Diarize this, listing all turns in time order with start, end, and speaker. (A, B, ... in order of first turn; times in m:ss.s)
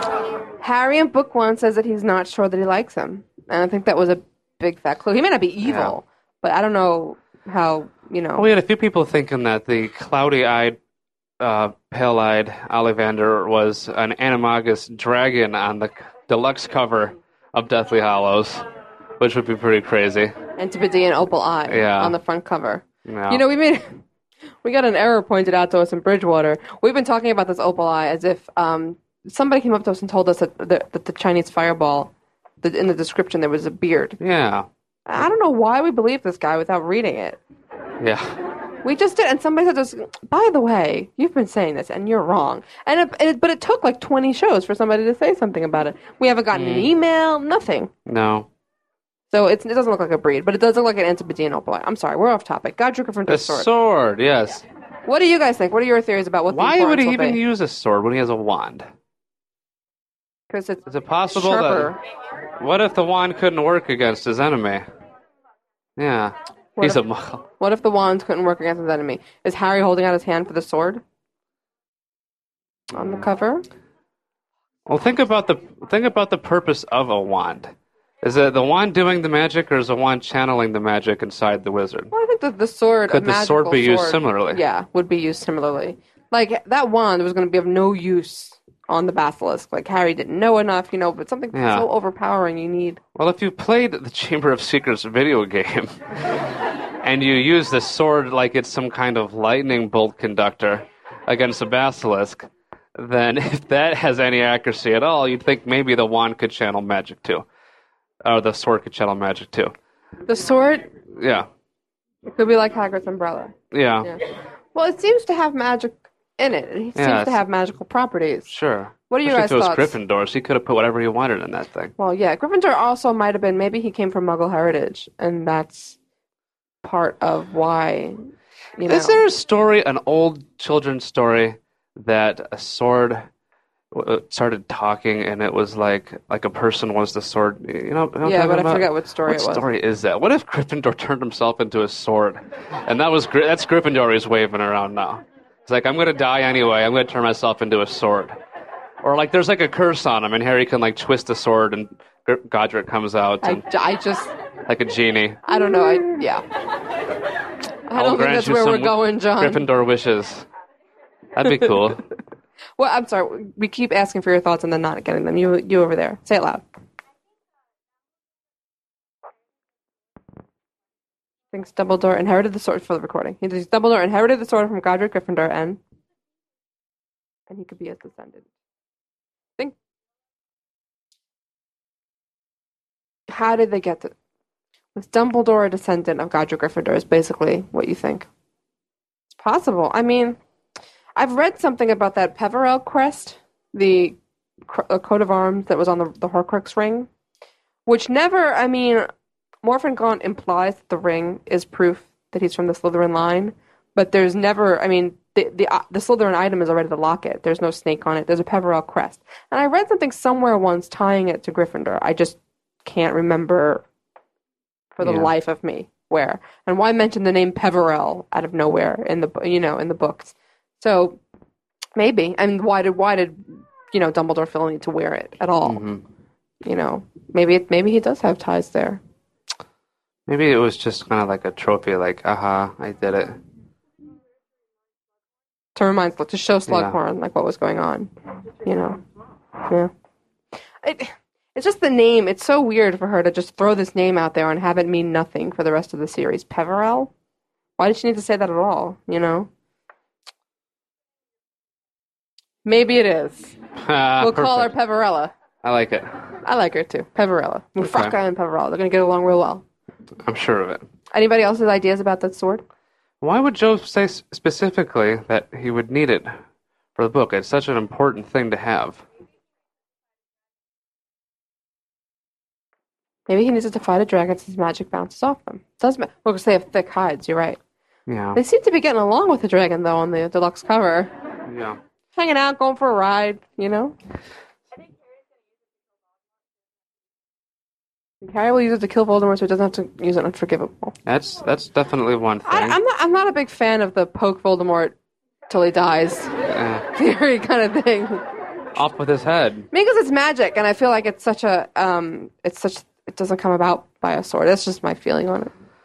0:00.6-0:08.5 A
0:05.6-0:06.0 B
0:08.4-0:10.8 B
0:11.4-0:18.6 B
0:19.2-0:20.3 B
0:20.6-0:24.0 A
0:21.7-0:22.1 B
0:23.0-0:23.4 B
0:24.6-0:34.2 A
0:34.2-0:34.7 B
0:35.0-0:37.4 A
0:38.0-0:38.3 B
0:38.8-0:47.9 A
0:46.5-0:46.9 B
0:48.0-0:48.5 B
0:49.3-0:53.7 A
0:53.3-0:54.6 B
0:55.0-0:57.4 A
0:56.5-0:58.8 B
1:00.5-1:02.0 A
1:00.9-1:02.0 B
1:02.6-1:04.8 B
1:06.0-1:07.4 B
1:07.6-1:11.0 A
1:12.9-1:13.6 A
1:14.9-1:22.1 B
1:22.1-1:33.0 A
1:23.1-1:24.6 B
1:31.5-1:31.9 B
1:33.2-1:36.0 B
1:37.0-1:47.4 B
1:48.2-1:49.7 B
1:50.3-1:50.9 A
1:51.1-1:51.5 B
1:52.3-1:54.2 A
1:53.7-1:54.1 B
1:54.7-1:58.5 A
1:57.0-1:57.4 B
1:58.5-2:01.9 B
1:59.1-2:00.0 A
2:02.0-2:06.0 A
2:06.8-2:08.2 A
2:08.8-2:09.2 A
2:08.8-2:13.3 B
2:13.9-2:28.4 B
2:18.2-2:19.6 A
2:29.0-2:33.6 B
2:33.4-2:34.3 A
2:34.7-2:35.5 B
2:35.5-2:36.4 A
2:37.9-2:39.6 A
2:37.9-2:40.5 B
2:41.4-2:42.0 B
2:42.8-2:46.6 A
2:51.5-2:55.8 A
2:57.5-2:58.5 A
3:03.3-3:04.1 A
3:04.9-3:08.3 A
3:09.3-3:10.4 A
3:11.2-3:17.1 A
3:17.8-3:19.1 A
3:19.6-3:33.8 A
3:35.0-3:41.2 A
3:35.0-3:35.3 B
3:42.0-3:45.8 A
3:45.6-3:46.0 B
3:46.6-3:49.0 A
3:50.3-3:53.4 B
3:55.7-3:58.1 A
3:56.7-3:56.9 B
3:58.6-3:59.0 A
3:59.6-3:59.9 A
4:00.8-4:07.1 A
4:07.8-4:09.5 A
4:12.6-4:13.6 A
4:13.8-4:14.7 B
4:14.2-4:15.3 A
4:15.6-4:16.2 B
4:16.4-4:19.6 A
4:17.8-4:18.1 B
4:20.2-4:20.8 B
4:21.1-4:22.6 A
4:23.2-4:26.4 B
4:27.0-4:29.0 B
4:33.3-4:37.6 A
4:38.1-4:38.4 B
4:38.3-4:41.1 A
4:41.4-4:41.8 B
4:42.1-4:44.0 A
4:48.2-4:50.9 A
4:51.0-4:52.8 B
4:52.4-4:54.9 A
4:55.5-4:56.4 A
4:56.5-4:56.9 B
4:56.9-4:58.2 A
4:58.8-4:59.7 B
4:59.7-5:05.5 A